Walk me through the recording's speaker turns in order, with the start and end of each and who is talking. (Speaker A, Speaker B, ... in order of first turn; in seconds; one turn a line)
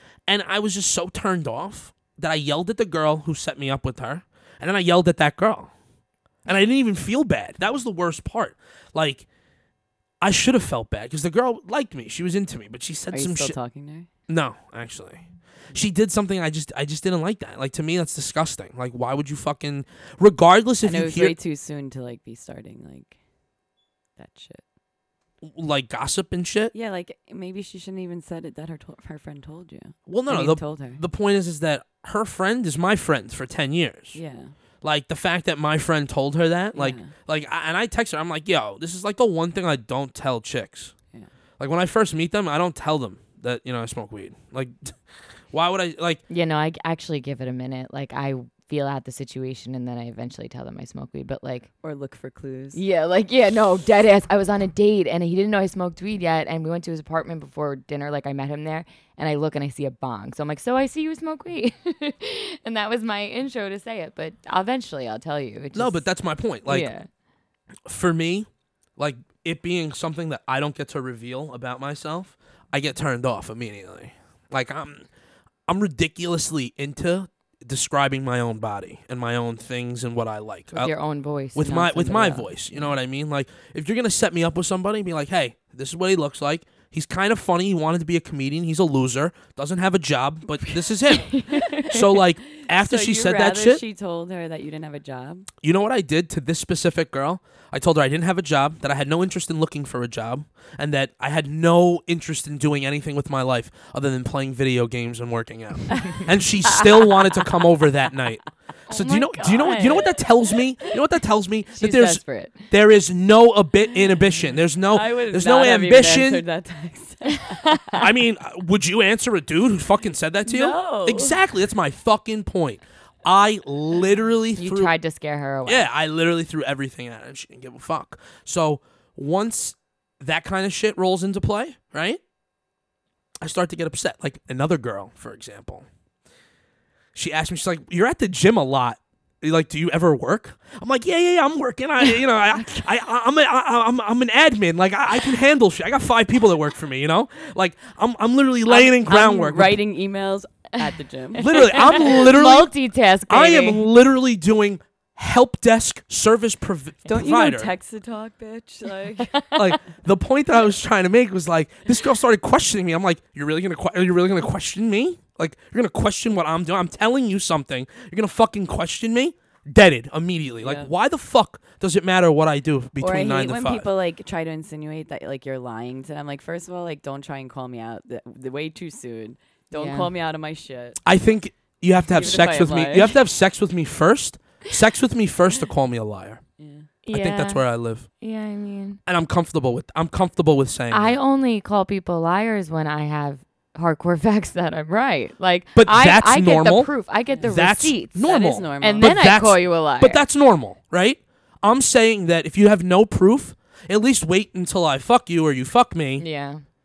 Speaker A: 0.3-5.7
Speaker A: 6.5-9.2
Speaker A: 10.2-13.6
Speaker B: 13.1-14.1
Speaker A: 14.3-21.3
Speaker B: 20.8-23.1
Speaker B: 24.2-24.6
Speaker A: 25.4-26.7
Speaker B: 26.7-31.0
Speaker A: 30.1-34.2
Speaker B: 34.1-34.5
Speaker A: 34.8-40.9
Speaker B: 36.7-37.1
Speaker A: 41.6-45.0
Speaker A: 45.5-46.2
Speaker C: 46.3-51.7
Speaker B: 51.8-52.8
Speaker C: 52.7-66.1
Speaker A: 65.7-66.9
Speaker C: 66.7-67.1
Speaker A: 67.8-75.0
Speaker A: 75.7-80.9
Speaker C: 80.7-82.5
Speaker A: 81.5-93.8
Speaker C: 91.2-92.0
Speaker B: 91.7-95.5
Speaker A: 95.6-116.4
Speaker C: 108.9-110.1
Speaker C: 111.7-112.6
Speaker B: 114.8-118.0
Speaker A: 118.0-124.9
Speaker B: 120.4-121.4
Speaker C: 124.6-125.9
Speaker A: 125.7-132.2
Speaker A: 133.4-135.9
Speaker A: 137.1-149.8
Speaker B: 148.7-152.2
Speaker A: 151.4-152.7
Speaker C: 151.5-153.8
Speaker A: 153.3-157.7
Speaker B: 157.1-159.6
Speaker A: 159.5-173.9
Speaker B: 170.6-170.9
Speaker B: 173.0-181.0
Speaker C: 179.7-180.1
Speaker A: 181.0-186.4
Speaker B: 182.1-183.2
Speaker B: 186.6-186.9
Speaker C: 187.1-187.6
Speaker A: 187.1-188.1
Speaker C: 188.2-189.0
Speaker A: 189.1-191.2
Speaker C: 190.9-200.2
Speaker A: 195.7-196.9
Speaker A: 197.5-206.2
Speaker B: 198.2-199.1
Speaker C: 206.2-206.6